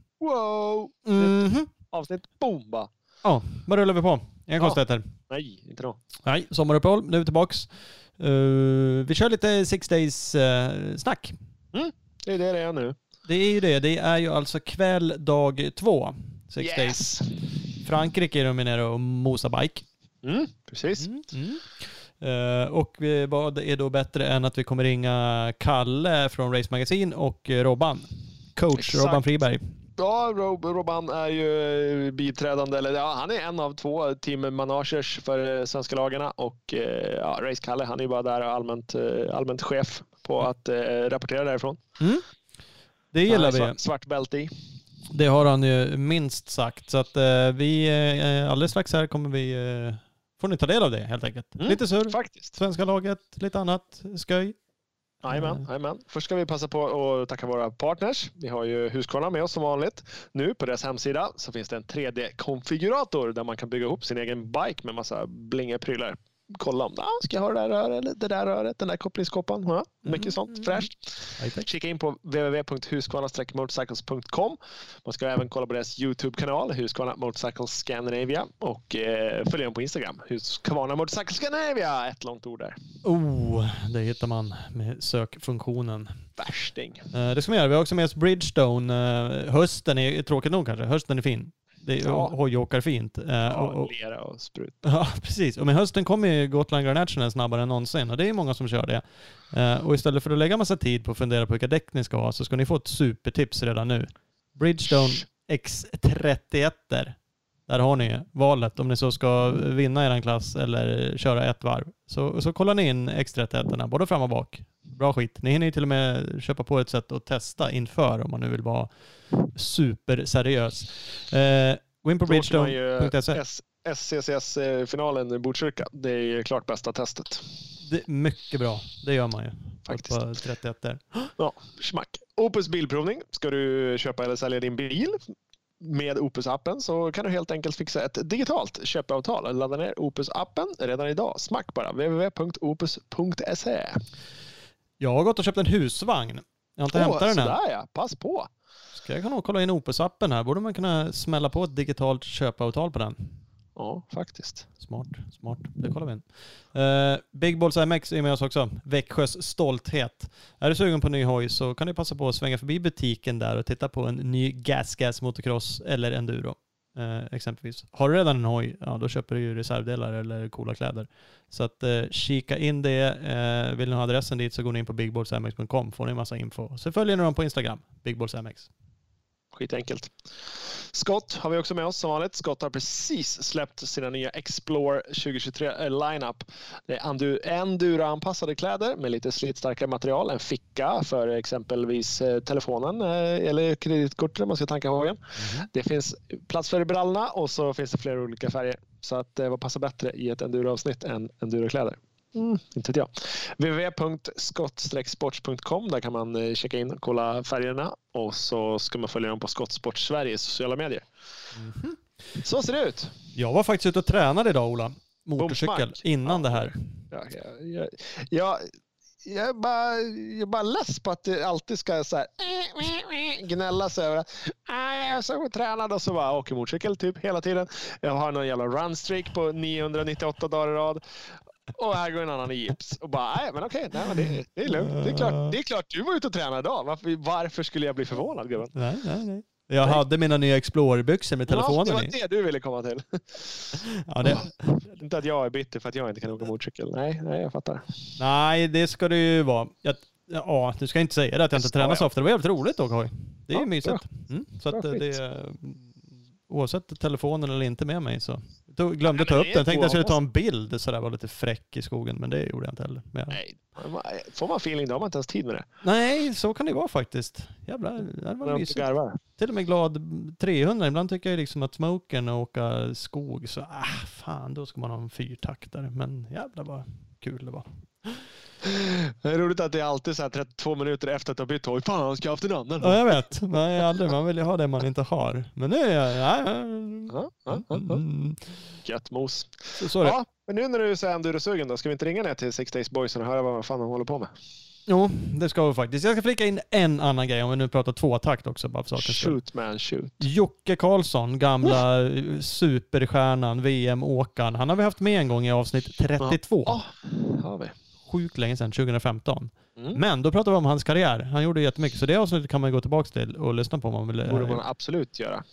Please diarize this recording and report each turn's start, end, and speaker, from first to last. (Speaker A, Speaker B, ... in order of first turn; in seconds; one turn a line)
Speaker A: 0.2-2.9
Speaker B: 1.0-1.7
Speaker B: 3.2-5.1
Speaker A: 4.6-6.0
Speaker B: 6.2-11.4
Speaker A: 11.7-13.0
Speaker B: 13.2-17.2
Speaker A: 16.6-17.4
Speaker B: 17.8-19.9
Speaker A: 20.2-21.2
Speaker B: 21.0-29.6
Speaker A: 28.8-29.2
Speaker A: 30.0-41.8
Speaker B: 43.1-43.8
Speaker A: 43.3-44.5
Speaker B: 45.1-54.6
Speaker A: 51.6-52.5
Speaker A: 55.2-82.8
Speaker B: 55.3-55.6
Speaker B: 70.0-70.9
Speaker B: 71.4-71.7
Speaker B: 83.0-86.3
Speaker A: 86.4-87.1
Speaker B: 87.1-93.9
Speaker A: 92.0-92.3
Speaker A: 93.5-94.8
Speaker B: 94.8-123.4
Speaker A: 122.2-127.6
Speaker B: 127.8-131.3
Speaker A: 129.9-130.3
Speaker A: 131.4-144.0
Speaker B: 145.0-147.6
Speaker A: 146.9-148.5
Speaker B: 148.9-153.4
Speaker A: 153.8-154.7
Speaker B: 154.8-178.7
Speaker A: 179.5-211.1
Speaker B: 195.4-195.7
Speaker B: 211.5-212.0
Speaker A: 212.4-213.1
Speaker B: 213.3-217.0
Speaker A: 215.4-238.8
Speaker B: 234.7-235.6
Speaker B: 238.7-242.1
Speaker A: 241.5-248.1
Speaker B: 244.0-244.8
Speaker B: 248.2-263.4
Speaker A: 251.5-252.1
Speaker A: 253.5-255.2
Speaker A: 259.1-260.1
Speaker A: 263.3-265.6
Speaker B: 265.8-278.3
Speaker A: 268.4-269.2
Speaker A: 278.6-283.3
Speaker B: 282.8-288.8
Speaker A: 287.1-288.0
Speaker A: 288.8-294.3
Speaker B: 289.8-290.2
Speaker B: 294.9-299.4
Speaker A: 299.0-300.2
Speaker B: 300.2-306.8
Speaker A: 306.2-307.7
Speaker B: 308.1-314.6
Speaker A: 314.3-315.4